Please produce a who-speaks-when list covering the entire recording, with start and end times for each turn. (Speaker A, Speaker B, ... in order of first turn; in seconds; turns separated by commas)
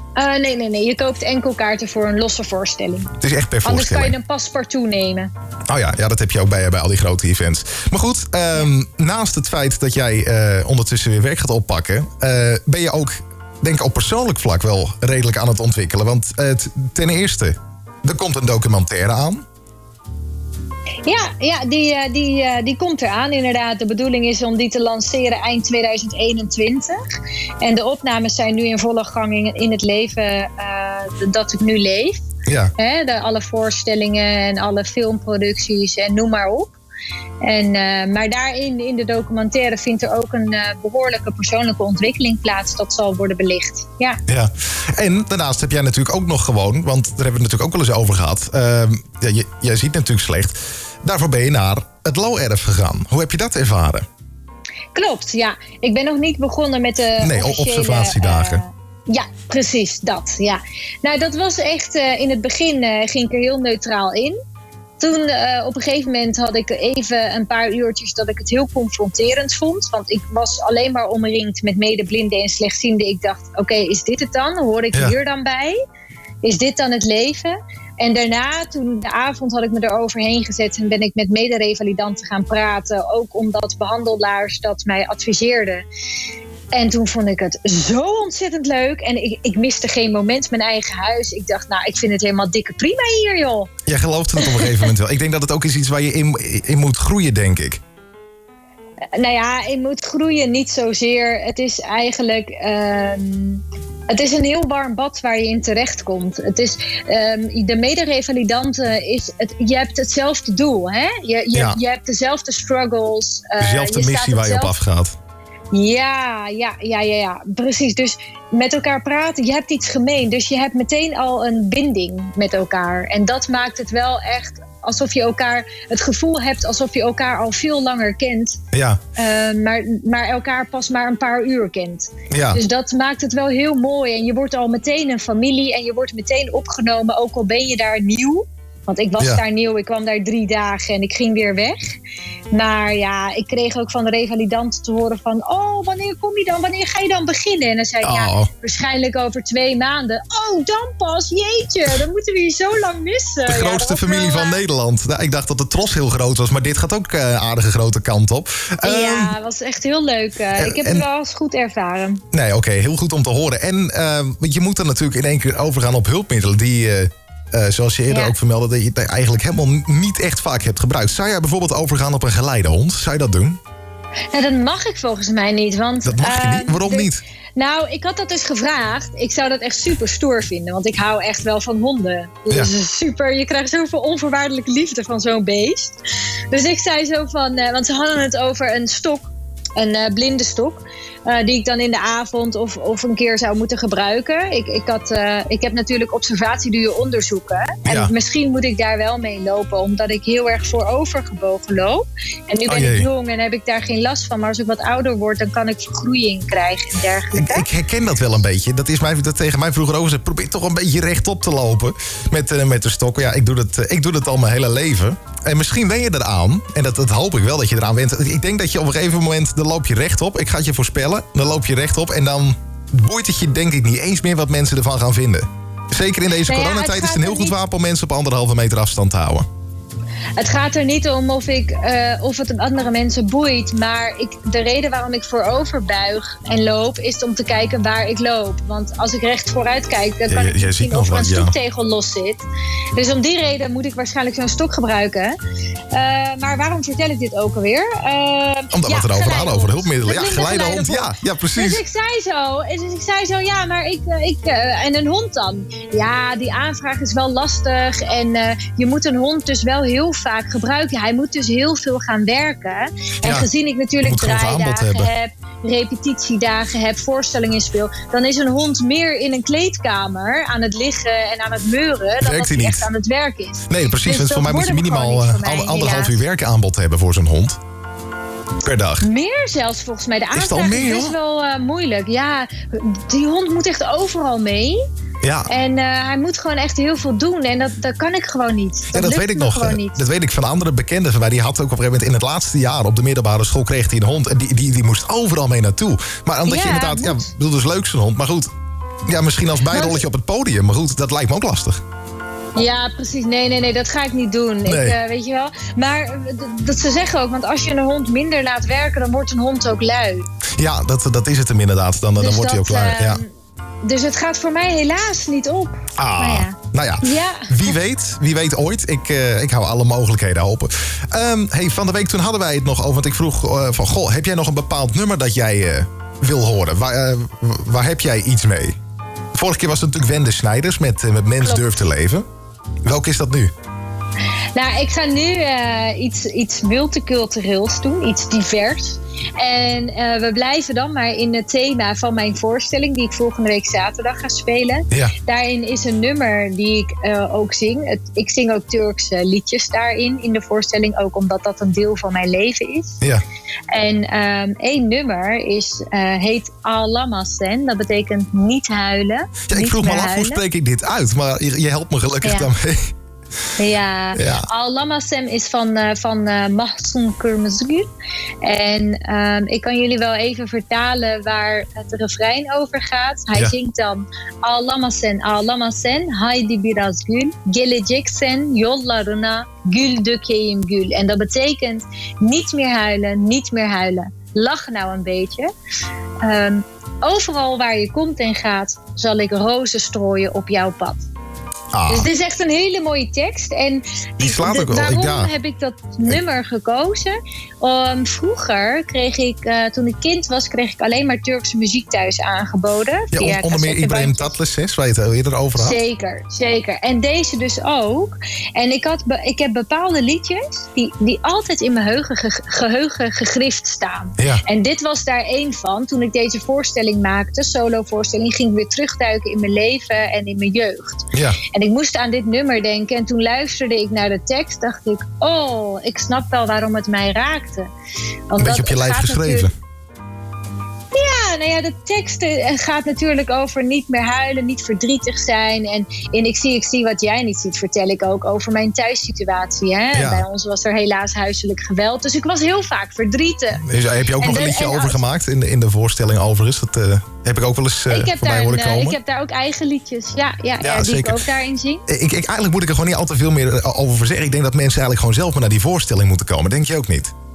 Speaker A: 0.2-3.1, Speaker B: 3.2-4.1, Speaker A: 3.6-5.3, Speaker B: 5.7-19.4, Speaker A: 21.0-27.0, Speaker A: 27.6-32.2, Speaker B: 32.5-32.7, Speaker A: 32.8-36.8, Speaker A: 37.4-44.2, Speaker B: 44.3-54.0, Speaker A: 54.9-64.3, Speaker B: 57.2-58.6, Speaker A: 65.0-75.8, Speaker A: 76.4-85.9, Speaker A: 86.7-93.7, Speaker B: 93.8-97.8, Speaker A: 94.4-94.9, Speaker A: 99.2-114.7, Speaker B: 111.5-111.8, Speaker B: 113.6-115.1, Speaker A: 115.7-128.6, Speaker B: 128.7-129.0, Speaker A: 129.2-141.9, Speaker B: 132.3-132.6, Speaker A: 142.5-154.6, Speaker B: 148.0-148.5, Speaker B: 153.5-159.3, Speaker A: 158.8-162.2, Speaker B: 160.6-161.0, Speaker B: 162.3-173.6, Speaker A: 168.1-168.3, Speaker A: 174.3-186.0, Speaker B: 176.0-177.2, Speaker A: 186.5-207.7, Speaker B: 197.8-198.1, Speaker B: 202.7-203.1, Speaker B: 207.3-229.5, Speaker A: 226.5-227.5, Speaker A: 230.4-245.3, Speaker B: 240.3-241.5, Speaker A: 245.9-276.2, Speaker B: 248.7-251.8, Speaker B: 264.0-265.1, Speaker B: 272.2-272.8, Speaker B: 273.7-277.6, Speaker B: 278.6-279.1, Speaker A: 279.0-284.8, Speaker B: 280.3-281.1, Speaker B: 285.2-285.5, Speaker A: 285.5-290.0, Speaker B: 288.9-298.5, Speaker A: 296.5-297.3, Speaker B: 299.1-301.8, Speaker A: 299.7-300.0, Speaker A: 302.5-310.3, Speaker B: 304.6-304.9, Speaker B: 310.6-313.2, Speaker A: 312.2-313.3, Speaker A: 313.8-317.7, Speaker B: 316.0-328.8, Speaker B: 329.3-332.2, Speaker B: 332.8-333.5, Speaker A: 334.5-353.0, Speaker A: 353.7-360.4, Speaker B: 359.5-362.9, Speaker A: 362.2-362.5, Speaker A: 363.6-367.9, Speaker B: 364.1-364.5, Speaker A: 368.4-385.5, Speaker A: 386.2-391.0, Speaker B: 391.7-392.1, Speaker A: 391.9-404.4, Speaker B: 394.2-395.3, Speaker B: 403.1-405.8, Speaker A: 405.6-427.7, Speaker B: 421.1-421.4, Speaker A: 428.3-429.5, Speaker B: 428.4-429.5, Speaker A: 430.9-443.6, Speaker B: 439.9-440.2, Speaker B: 443.6-449.0, Speaker A: 444.2-445.0, Speaker A: 447.9-451.8, Speaker B: 450.6-451.2, Speaker B: 451.9-457.1